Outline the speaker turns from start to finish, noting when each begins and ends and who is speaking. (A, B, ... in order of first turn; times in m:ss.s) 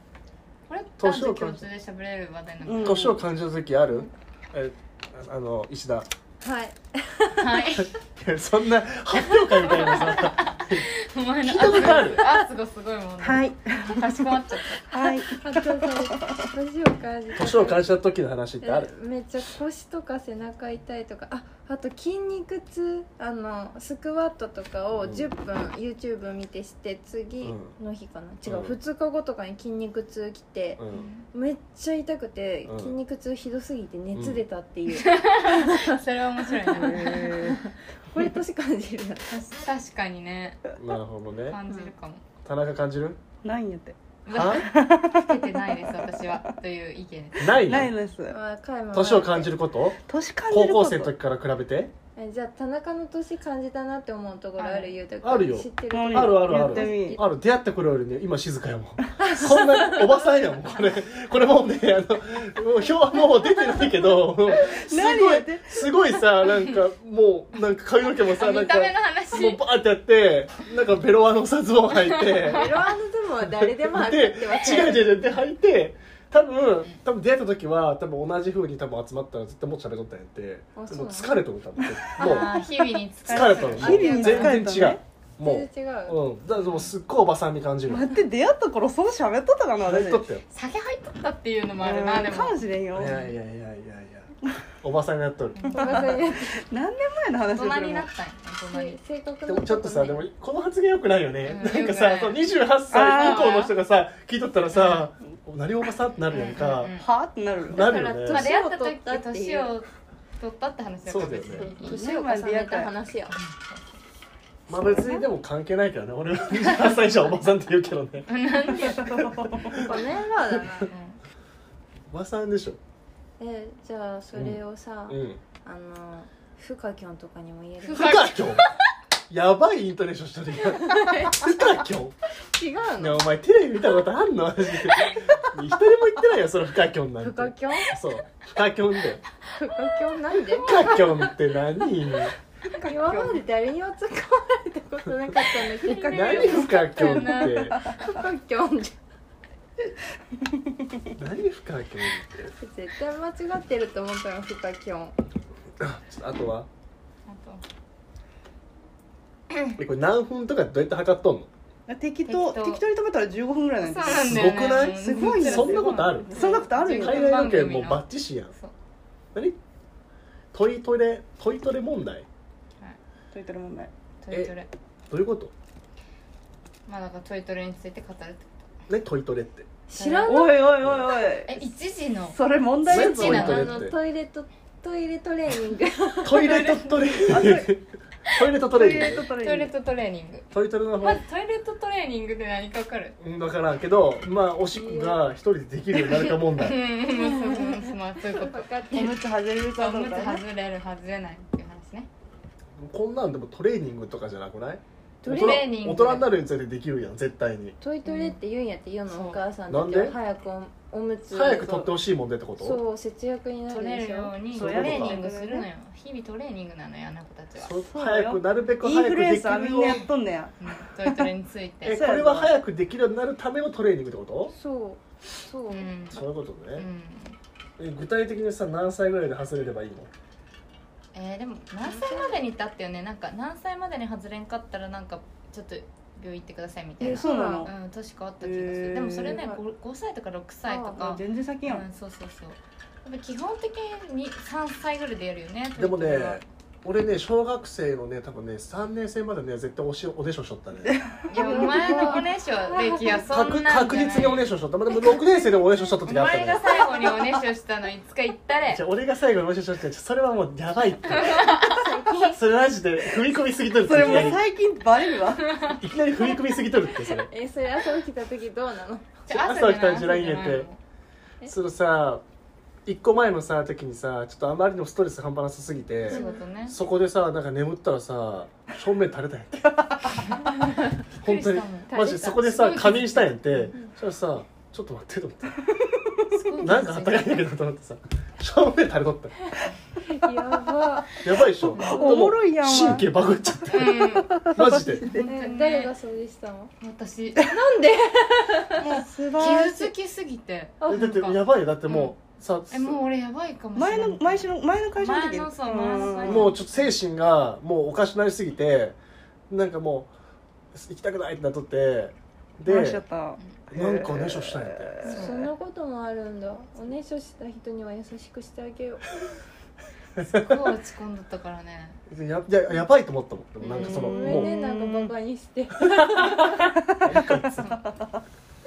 0:00.7-0:03.1 A
0:01.0-0:01.6 B
0:02.6-0:03.2 C
0:02.8-0:06.1 B
0:06.4-0:07.8 D
0:07.4-0:07.9 A
0:08.2-0:10.9 B
0:09.6-0:14.9 A
0:11.4-0:12.3 B
0:13.2-0:14.3 C
0:14.9-0:16.4 C
0:15.3-0:17.9 D
0:17.3-0:18.9 B
0:18.6-0:36.0 D
0:25.0-0:25.3 B
0:27.4-0:27.7 B
0:28.4-0:28.8 B
0:30.8-0:31.0 B
0:30.9-0:31.2 A
0:32.6-0:32.9 B
0:34.1-0:34.4 B
0:34.9-0:37.4 A
0:36.7-0:39.3 D
0:36.7-0:37.6 C
0:39.3-0:40.6 A
0:40.8-0:41.6 B
0:41.5-0:42.2 A
0:42.4-0:43.2 B
0:43.4-0:44.0 C
0:44.2-0:47.5 A
0:44.3-0:44.6 B
0:44.5-0:46.3 C
0:47.4-0:47.9 B
0:47.5-0:48.4 C
0:48.3-0:49.5 D
0:48.9-0:50.0 B
0:50.1-0:51.1 C
0:50.5-0:51.9 B
0:52.2-0:57.2 D
0:54.6-0:55.0 A
0:55.2-1:12.8 B
0:55.9-0:57.2 C
0:59.2-1:00.3 D
1:04.5-1:05.9 C
1:08.2-1:09.6 A
1:12.1-1:12.5 A
1:12.4-1:15.3 D
1:13.4-1:22.6 B
1:20.8-1:21.3 D
1:22.2-1:22.5 C
1:22.2-1:24.6 A
1:23.3-1:25.0 C
1:23.3-1:28.2 B
1:25.4-1:26.2 D
1:26.6-1:26.9 A
1:27.9-1:30.2 C
1:29.8-1:30.4 B
1:30.5-1:33.3 A
1:31.8-1:33.2 C
1:32.9-1:35.6 B
1:35.5-1:36.2 A
1:35.7-1:36.6 D
1:35.8-1:38.1 C
1:37.5-1:39.0 A
1:38.7-1:40.2 D
1:39.4-1:46.9 B
1:41.4-1:42.4 A
1:42.9-1:43.6 C
1:43.0-1:43.7 A
1:44.7-1:45.1 A
1:46.3-1:47.0 A
1:47.0-1:48.0 C
1:47.7-1:48.5 B
1:47.7-1:49.7 D
1:48.2-1:49.9 A
1:50.4-1:52.0 A
1:51.0-1:51.7 B
1:51.6-1:53.3 D
1:51.7-1:52.9 C
1:53.3-1:53.9 A
1:54.7-1:58.3 B
1:54.7-1:55.2 D
1:58.3-1:59.3 A
1:58.8-1:59.8 C
1:59.6-2:00.0 B
1:59.7-2:00.9 D
2:00.5-2:00.8 B
2:00.9-2:01.2 A
2:02.1-2:02.8 B
2:03.4-2:08.2 D
2:04.3-2:05.4 B
2:07.8-2:08.7 A
2:07.9-2:08.6 B
2:09.3-2:12.1 B
2:10.8-2:11.8 D
2:12.5-2:13.2 D
2:13.0-2:19.2 B
2:17.2-2:18.0 D
2:19.5-2:21.0 D
2:20.6-2:22.3 B
2:22.7-2:23.4 C
2:22.8-2:26.8 D
2:25.8-2:28.1 A
2:26.1-2:27.8 B
2:27.4-2:28.0 C
2:27.8-2:29.0 D
2:31.2-2:32.5 B
2:32.6-2:35.1 D
2:35.8-2:36.7 B
2:37.3-2:37.6 A
2:39.5-2:39.8 A
2:39.8-2:41.5 B
2:41.9-2:47.3 C
2:42.2-2:42.8 A
2:43.8-2:48.7 A
2:44.1-2:48.5 B
2:50.5-2:52.3 B
2:53.3-2:53.9 C
2:54.2-2:54.7 A
2:55.1-2:55.5 B
2:56.9-2:58.6 A
2:58.9-2:59.7 B
2:59.9-3:00.7 D
2:59.9-3:00.4 A
3:00.2-3:01.6 C
3:00.8-3:01.1 B
3:01.4-3:02.4 A
3:02.3-3:03.3 C
3:02.8-3:03.9 B
3:02.9-3:03.9 A
3:03.0-3:06.8 D
3:06.2-3:09.2 B
3:06.4-3:07.0 A
3:07.3-3:07.7 C
3:08.7-3:09.7 C
3:09.3-3:10.5 A
3:10.5-3:11.2 B
3:11.0-3:13.2 A
3:13.2-3:16.8 B
3:14.7-3:15.2 D
3:16.1-3:19.0 A
3:17.0-3:19.2 D
3:18.9-3:20.4 C
3:19.8-3:22.1 A
3:22.8-3:27.8 B
3:25.2-3:25.6 D
3:25.2-3:26.3 A
3:27.8-3:31.9 D
3:28.0-3:28.4 A
3:29.1-3:29.4 A
3:29.7-3:30.1 B
3:31.3-3:32.8 B
3:32.6-3:34.3 D
3:33.7-3:37.8 A
3:34.5-3:35.2 B
3:34.5-3:35.7 C
3:37.6-3:40.0 B
3:37.9-3:41.3 C
3:40.6-3:42.0 A
3:41.8-3:44.5 B
3:41.9-3:42.5 C
3:44.5-3:45.9 D
3:45.7-3:46.2 A
3:46.1-3:46.8 B
3:46.7-3:47.4 A
3:47.8-3:50.1 B
3:51.1-4:06.4 A
3:51.8-3:52.4 D
3:57.0-3:57.7 D
3:57.0-3:57.7 C
3:58.4-3:59.4 C
3:59.2-3:59.6 D
4:00.6-4:01.0 D
4:01.0-4:01.8 C
4:05.8-4:11.0 B
4:10.8-4:12.2 C
4:11.3-4:14.5 A
4:11.3-4:13.2 D
4:13.3-4:16.7 B
4:16.0-4:18.8 A
4:16.8-4:17.2 D
4:18.7-4:21.5 B
4:21.1-4:21.9 A
4:21.4-4:22.4 D
4:22.3-4:24.4 B
4:23.8-4:25.7 C
4:25.5-4:25.8 A
4:25.7-4:27.3 B
4:27.0-4:29.2 D
4:29.3-4:30.8 A
4:29.3-4:30.7 B
4:31.4-4:32.2 B
4:32.8-4:39.8 B
4:36.1-4:36.4 D
4:36.1-4:36.8 A
4:39.7-4:40.2 C
4:41.2-4:45.6 B
4:41.2-4:43.7 A
4:41.9-4:42.7 D
4:45.8-4:46.2 C
4:46.3-4:47.4 A
4:46.6-4:49.3 B
4:50.1-4:52.2 D
4:51.2-4:55.1 B
4:51.7-4:52.1 A
4:51.8-4:53.1 C
4:53.7-4:55.9 A
4:53.7-4:55.3 C
4:55.2-4:56.7 D
4:56.8-4:57.5 A
4:57.4-4:58.8 D
4:58.8-4:59.9 C
4:59.4-5:02.1 A
5:00.8-5:01.2 D
5:00.9-5:03.0 B
5:02.7-5:06.8 A
5:03.8-5:06.5 C
5:06.2-5:09.0 B
5:09.5-5:10.1 B
5:10.7-5:13.0 B
5:12.7-5:15.3 C
5:13.7-5:14.9 B
5:15.0-5:15.5 A
5:15.0-5:19.1 D
5:20.2-5:20.5 B
5:20.2-5:22.0 A
5:22.1-5:24.5 B
5:23.6-5:24.1 A
5:23.7-5:25.1 C
5:23.8-5:26.8 D
5:25.8-5:27.8 B
5:26.9-5:28.2 C